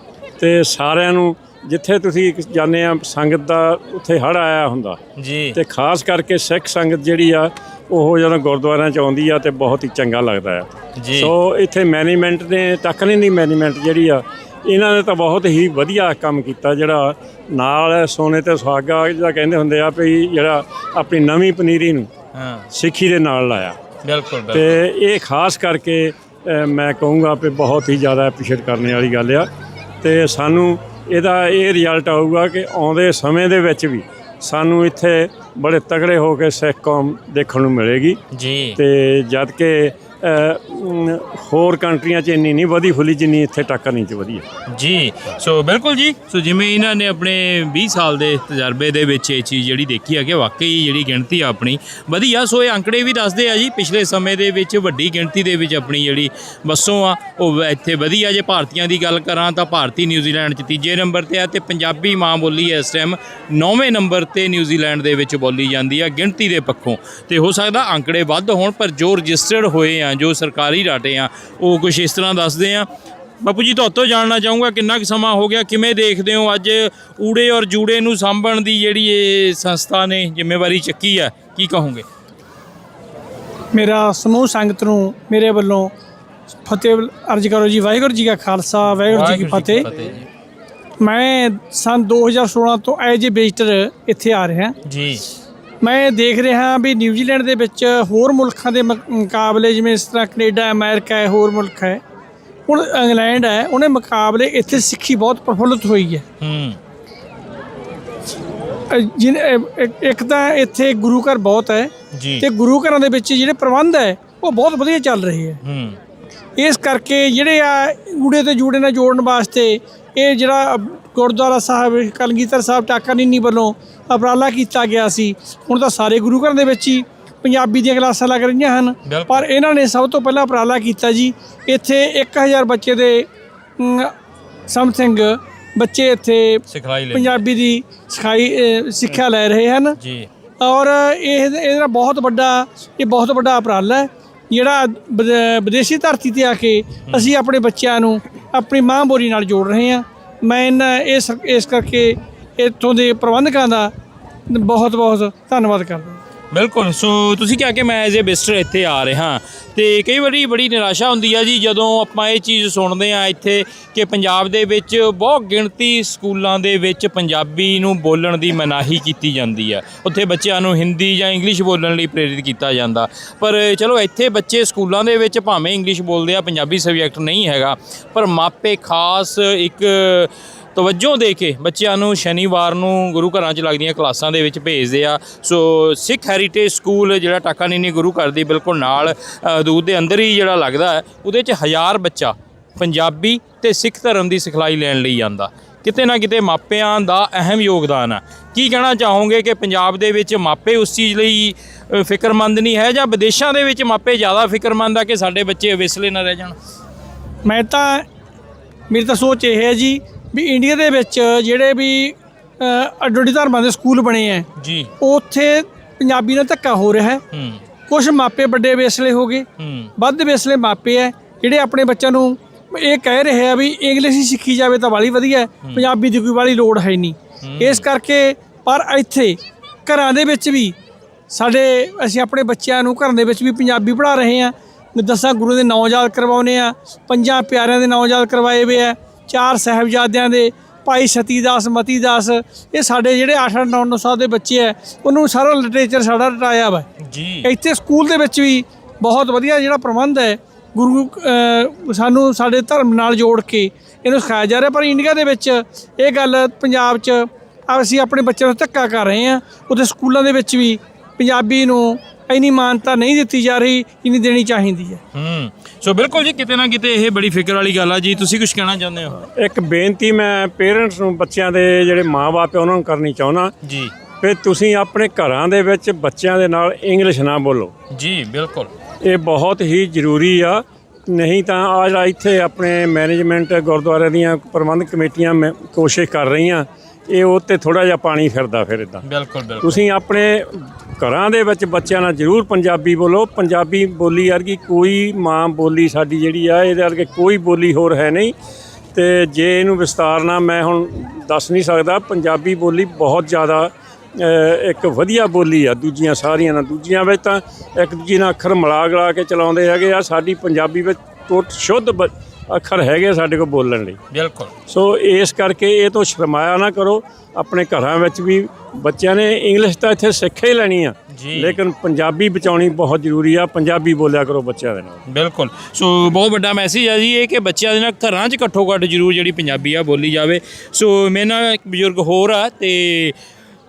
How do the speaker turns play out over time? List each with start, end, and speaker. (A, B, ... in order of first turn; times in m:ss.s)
0:00.4-0:05.0 A
0:05.2-0:05.6 B
0:05.6-0:22.1 A
0:11.0-0:11.3 B
0:22.4-0:22.7 B
0:22.7-0:23.8 A
0:24.0-0:24.8 B
0:24.5-0:29.5 A
0:30.0-0:38.2 A
0:38.3-0:38.8 B
0:38.8-0:44.4 A
0:44.7-1:12.9 B
1:13.4-1:22.1 B
1:23.7-1:25.9 C
1:26.6-1:29.9 C
1:29.1-1:30.3 B
1:31.0-1:34.8 C
1:34.8-1:35.2 B
1:35.8-1:42.0 C
1:42.7-1:46.2 C
1:46.4-1:46.8 B
1:48.9-1:55.6 C
1:52.1-1:52.5 B
1:55.6-1:56.0 B
1:56.6-2:14.1 C
2:09.1-2:09.5 B
2:14.7-2:20.0 C
2:16.7-2:17.3 B
2:20.0-2:20.3 B
2:20.6-2:33.9 C
2:34.5-2:36.2 C
2:36.5-3:26.6 B
3:27.4-3:28.1 C
3:28.9-3:34.5 C
3:34.6-3:34.9 B
3:35.0-3:37.2 C
3:37.3-3:37.6 B
3:37.9-3:50.8 C
3:39.6-3:39.9 B
3:47.4-3:47.8 B
3:51.3-4:06.9 C
4:07.0-4:07.5 B
4:07.4-4:25.0 C
4:25.1-4:29.2 B
4:29.4-4:33.5 A
4:33.6-4:33.9 B
4:34.2-4:37.7 A
4:37.9-4:38.7 B
4:39.0-4:49.0 A
4:49.0-4:49.8 B
4:49.6-4:58.3 A
4:58.9-5:14.0 A
5:14.1-5:14.5 B
5:14.7-5:25.0 A
5:21.1-5:21.6 B
5:25.1-5:33.2 B